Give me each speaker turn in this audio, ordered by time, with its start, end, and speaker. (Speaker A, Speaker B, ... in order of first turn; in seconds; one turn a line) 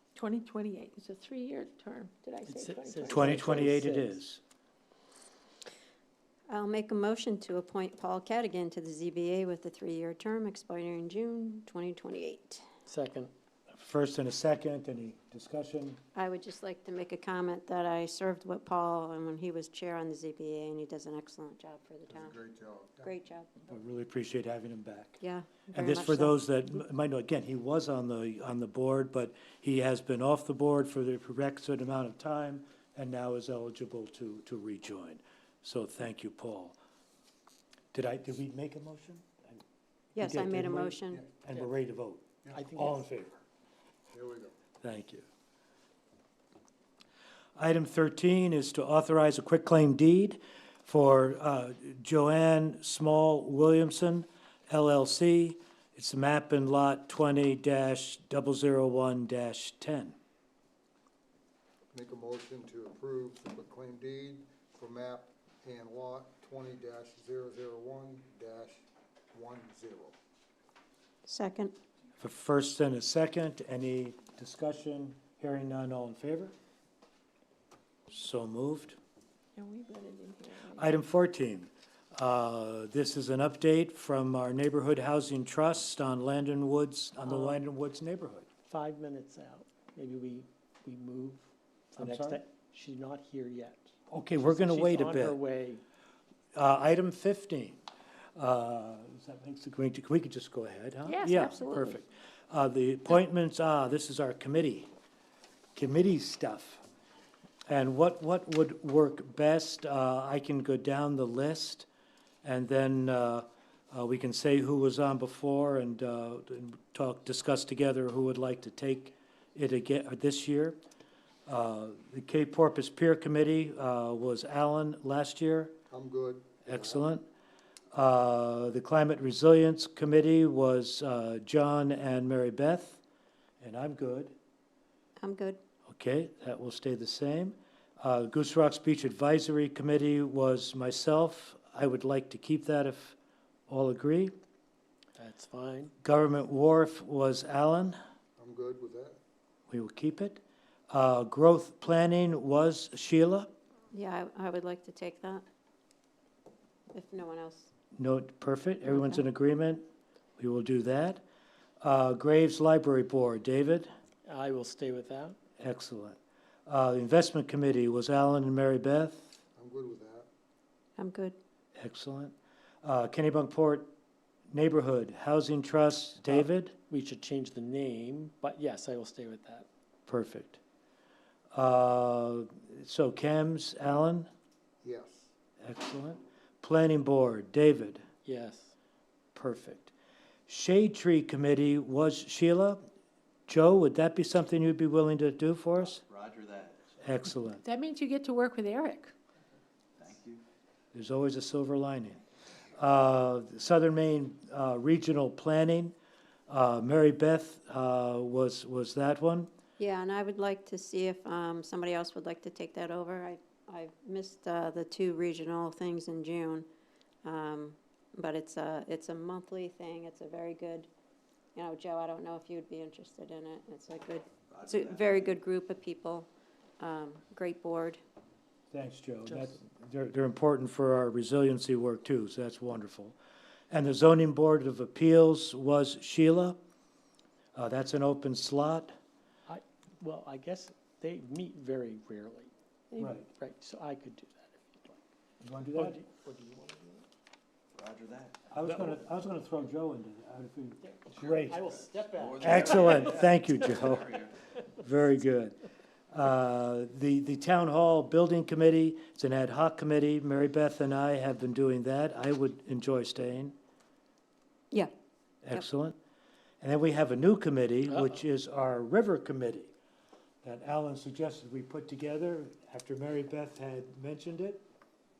Speaker A: 0.1-3.4
Speaker B: 2.5-4.2
Speaker C: 3.1-4.4
Speaker D: 6.5-12.6
Speaker B: 12.8-13.3
Speaker C: 13.7-16.0
Speaker D: 16.1-22.3
Speaker E: 22.1-23.1
Speaker D: 23.0-23.5
Speaker C: 23.7-25.2
Speaker D: 25.2-26.4
Speaker C: 25.7-36.8
Speaker C: 37.9-39.6
Speaker D: 40.1-41.2
Speaker C: 40.2-43.4
Speaker B: 42.5-43.0
Speaker E: 44.1-44.5
Speaker C: 44.8-45.3
Speaker C: 47.5-60.1
Speaker E: 61.9-68.8
Speaker E: 69.3-70.2
Speaker D: 71.2-71.7
Speaker C: 72.2-76.5
Speaker C: 78.1-79.0
Speaker A: 79.6-80.8
Speaker C: 80.7-88.5
Speaker B: 87.2-87.6
Speaker B: 88.7-95.8
Speaker C: 92.0-92.4
Speaker C: 94.1-95.4
Speaker C: 96.5-97.8
Speaker C: 98.3-104.9
Speaker A: 101.1-102.0
Speaker C: 105.8-106.8
Speaker C: 107.7-111.9
Speaker C: 112.4-120.8
Speaker C: 121.5-125.8
Speaker E: 125.9-127.1
Speaker C: 126.6-127.2
Speaker C: 127.9-133.0
Speaker C: 133.6-134.3
Speaker D: 135.2-135.6
Speaker C: 135.9-143.2
Speaker C: 143.7-144.3
Speaker B: 145.2-145.9
Speaker C: 146.0-148.0
Speaker E: 148.4-149.2
Speaker C: 149.7-153.5
Speaker D: 153.9-155.4
Speaker D: 156.9-157.7
Speaker C: 157.9-159.8
Speaker D: 158.8-159.2
Speaker C: 160.4-161.2
Speaker C: 161.8-163.9
Speaker B: 164.2-165.4
Speaker C: 165.6-169.3
Speaker E: 169.6-170.3
Speaker D: 171.0-171.3
Speaker C: 171.8-173.9
Speaker C: 174.5-176.7
Speaker B: 176.2-179.7
Speaker C: 180.1-180.6
Speaker C: 181.5-184.3
Speaker E: 184.8-185.3
Speaker C: 185.6-188.0
Speaker B: 188.2-188.7
Speaker C: 189.3-189.9
Speaker C: 190.5-192.8
Speaker C: 193.5-196.0
Speaker F: 196.0-197.0
Speaker C: 197.0-197.6
Speaker A: 197.7-199.1
Speaker F: 200.0-200.4
Speaker C: 200.9-202.2
Speaker C: 202.8-205.9
Speaker C: 206.5-209.5
Speaker D: 209.8-216.7
Speaker D: 217.2-220.9
Speaker D: 221.5-226.3
Speaker F: 224.6-225.2
Speaker D: 226.8-228.0
Speaker C: 228.7-233.2
Speaker B: 229.3-229.5
Speaker C: 233.7-236.6
Speaker C: 237.5-238.9
Speaker B: 239.5-242.5
Speaker C: 243.0-243.3
Speaker B: 243.2-245.0
Speaker C: 245.4-246.0
Speaker B: 245.7-247.1
Speaker F: 247.8-248.4
Speaker C: 248.5-251.6
Speaker B: 250.8-253.1
Speaker F: 251.2-251.5
Speaker F: 252.1-254.3
Speaker C: 252.4-255.6
Speaker C: 256.1-263.5
Speaker C: 265.4-265.9
Speaker C: 266.6-269.7
Speaker C: 270.4-274.6